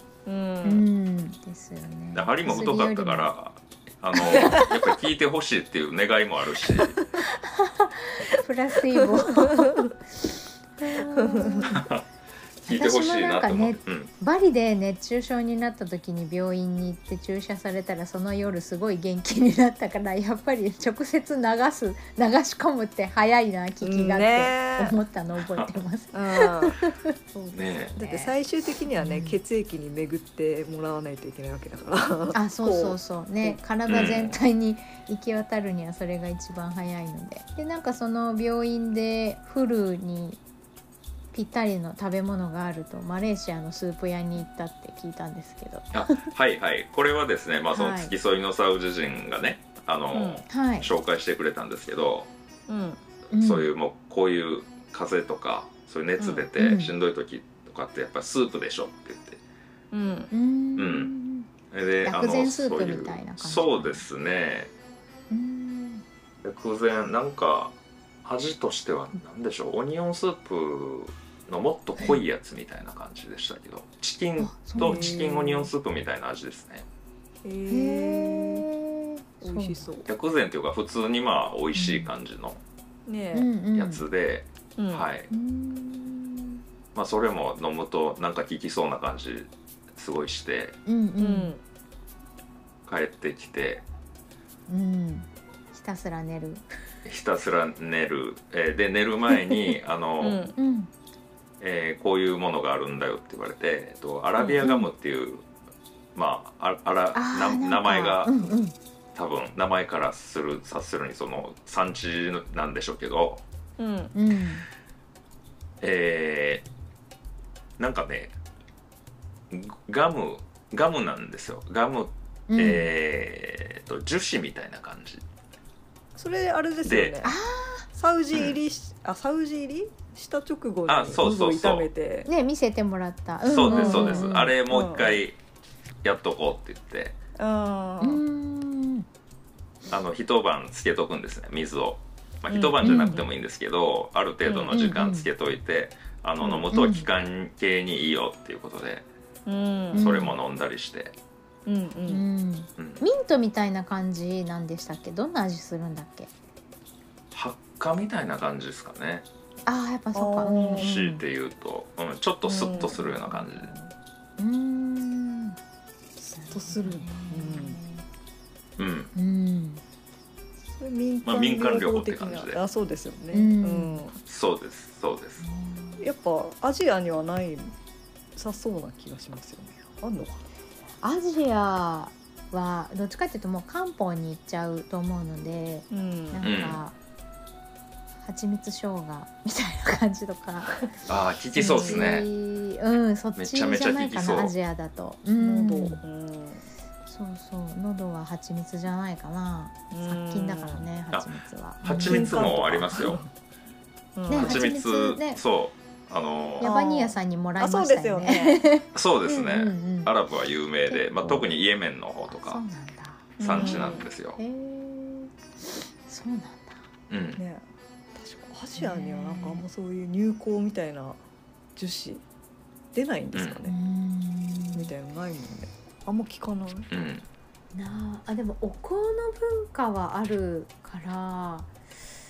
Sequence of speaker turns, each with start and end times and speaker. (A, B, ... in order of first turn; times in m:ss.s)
0:00.2-0:00.9 A
0:00.6-0:03.3 B
0:02.1-0:07.0 C
0:04.2-0:04.8 A
0:07.3-0:09.9 B
0:09.4-0:09.9 A
0:10.8-0:11.8 B
0:11.2-0:11.7 A
0:11.7-0:12.0 C
0:12.6-0:14.1 C
0:12.6-0:28.3 B
0:23.8-0:25.0 A
0:26.1-0:26.8 A
0:27.5-0:28.0 C
0:28.0-0:34.3 A
0:29.0-0:29.4 B
0:32.3-0:40.4 B
0:33.9-0:34.4 C
0:41.3-0:46.3 B
0:45.9-0:52.3 C
0:47.7-0:48.1 B
0:50.1-0:50.4 A
0:50.5-0:50.9 B
0:52.7-0:53.0 A
0:53.3-0:53.7 B
0:53.4-0:59.4 C
0:56.2-0:56.5 A
0:56.6-0:56.9 B
0:59.9-1:00.3 A
1:00.3-1:01.5 B
1:00.8-1:01.1 C
1:01.7-1:04.7 C
1:02.0-1:04.1 B
1:05.3-1:06.0 B
1:06.4-1:16.9 C
1:14.4-1:15.2 B
1:14.8-1:15.7 A
1:17.4-1:18.6 A
1:17.7-1:19.9 B
1:19.4-1:20.1 A
1:20.1-1:22.6 C
1:21.8-1:22.1 B
1:23.1-1:23.5 A
1:23.3-1:24.0 B
1:23.7-1:25.3 C
1:24.8-1:25.1 A
1:25.3-1:26.6 B
1:26.9-1:30.8 C
1:30.9-1:31.6 B
1:31.2-1:31.6 A
1:32.9-1:33.8 C
1:34.7-1:36.6 B
1:37.0-1:40.4 C
1:40.2-1:40.6 A
1:40.6-1:40.9 B
1:41.6-1:45.4 C
1:44.4-1:44.7 A
1:44.6-1:44.9 B
1:46.1-1:48.4 C
1:47.1-1:48.8 B
1:49.1-1:53.4 C
1:53.8-1:54.1 A
1:54.1-1:54.6 B
1:55.8-1:56.6 C
1:57.8-1:58.3 C
1:59.5-2:05.2 C
2:02.5-2:02.9 B
2:06.2-2:07.4 A
2:06.8-2:07.2 C
2:07.2-2:07.9 B
2:07.9-2:12.3 A
2:08.3-2:08.6 C
2:10.9-2:11.9 C
2:12.2-2:14.5 B
2:13.4-2:15.4 C
2:13.5-2:15.2 A
2:16.0-2:17.2 C
2:17.4-2:18.2 A
2:18.0-2:19.1 B
2:19.9-2:29.0 C
2:22.5-2:23.3 A
2:22.8-2:23.2 B
2:24.4-2:24.8 A
2:24.7-2:25.3 B
2:26.4-2:26.7 A
2:26.7-2:27.1 B
2:29.4-2:30.1 A
2:29.9-2:30.4 B
2:29.9-2:31.2 C
2:31.6-2:32.2 A
2:32.1-2:36.3 B
2:37.3-2:39.2 C
2:39.6-2:41.2 B
2:40.1-2:40.9 A
2:40.7-2:43.7 C
2:42.4-2:43.8 A
2:42.9-2:43.4 B
2:44.4-2:45.6 B
2:46.3-2:47.8 A
2:46.3-2:48.0 B
2:48.8-2:49.1 C
2:49.1-2:49.8 B
2:50.7-2:54.2 A
2:51.2-2:52.6 C
2:53.3-2:54.0 B
2:54.3-2:55.4 C
2:55.4-2:56.0 B
2:56.0-2:57.8 A
2:58.4-3:00.5 A
3:01.0-3:06.9 B
3:05.9-3:06.5 A
3:06.4-3:06.8 C
3:08.2-3:10.9 B
3:11.1-3:12.3 C
3:11.5-3:16.0 B
3:11.6-3:12.0 A
3:13.4-3:14.5 C
3:15.4-3:16.6 A
3:17.0-3:22.9 B
3:19.9-3:20.9 A
3:21.8-3:23.2 C
3:21.9-3:23.3 A
3:24.2-3:24.6 A
3:24.3-3:25.4 B
3:24.3-3:26.7 C
3:26.6-3:28.7 A
3:26.6-3:30.1 B
3:28.9-3:32.6 C
3:30.9-3:31.5 B
3:32.3-3:35.3 B
3:33.4-3:34.0 A
3:33.4-3:34.4 C
3:36.1-3:36.8 B
3:37.1-3:37.4 C
3:37.4-3:37.6 A
3:38.1-3:41.2 A
3:38.8-3:39.6 B
3:41.8-3:42.2 A
3:42.9-3:43.8 A
3:43.3-3:43.6 C
3:43.6-3:44.9 B
3:44.8-3:46.9 A
3:46.9-3:47.2 C
3:47.7-3:51.7 B